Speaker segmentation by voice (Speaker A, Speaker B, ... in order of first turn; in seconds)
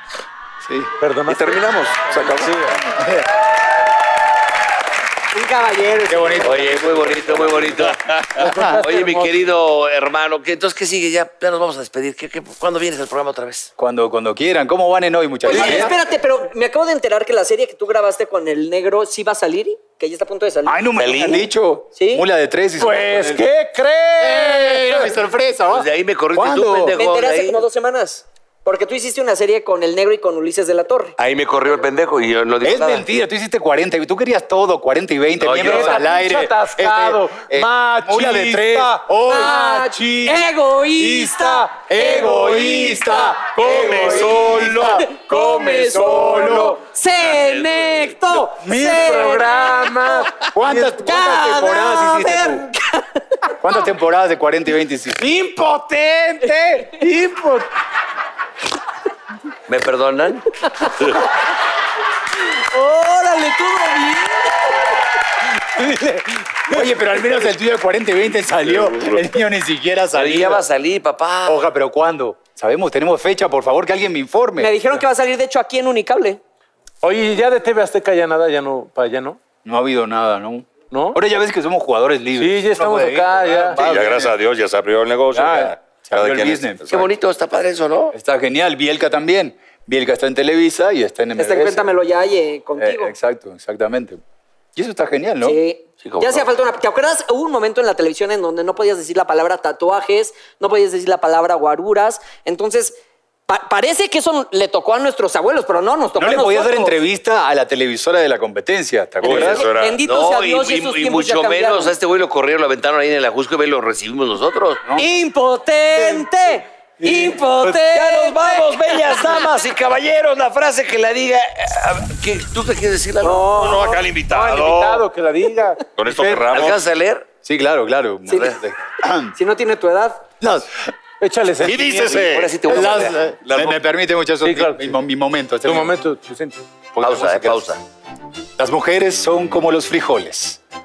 Speaker A: 0.6-0.9, 2.9-3.3, 6.1-7.7, 8.4-8.8, 13.8-15.9, 20.6-23.4, 24.2-27.0, 32.6-39.5, 41.9-45.0, 46.3-46.7, 48.6-49.1, 50.5-52.5, 53.6-55.2, 66.7-70.7, 71.5-74.7, 79.6-84.3, 85.3-86.8, 88.1-91.9, 92.8-94.2, 94.8-95.6, 106.2-109.6, 127.4-129.3, 130.4-130.7, 132.7-135.9, 136.9-137.7, 138.6-140.6
Speaker B: 1.0-1.6, 8.3-9.4, 22.8-25.2, 35.5-44.9, 45.9-46.7, 48.7-51.1, 51.8-52.6, 55.1-57.7, 65.6-66.8, 77.0-79.4, 80.9-81.2, 82.4-84.1, 115.9-116.3, 117.0-117.8, 123.2-126.4, 131.2-132.3, 134.4-134.9, 135.6-136.7
Speaker C: 1.3-2.8, 43.5-48.2, 68.6-69.2, 83.8-87.1, 109.2-110.0, 123.5-125.1, 126.0-126.8, 131.6-132.8, 133.4-133.8
Speaker D: 5.3-6.7, 15.4-21.0, 21.9-22.2, 27.0-31.1, 39.2-41.7, 44.0-50.3, 51.0-53.5, 62.7-64.7, 74.6-76.4, 91.4-93.1, 95.4-103.0, 103.5-107.0, 109.3-111.9, 115.0-119.5, 129.3-130.2
Speaker E: 6.4-13.7, 21.0-21.5, 25.7-27.6, 31.2-33.1, 35.4-36.0, 59.7-60.5, 70.1-71.6, 86.9-88.1, 96.0-96.5, 110.0-114.8, 117.9-123.5, 126.5-127.3, 132.0-133.2, 137.0-137.8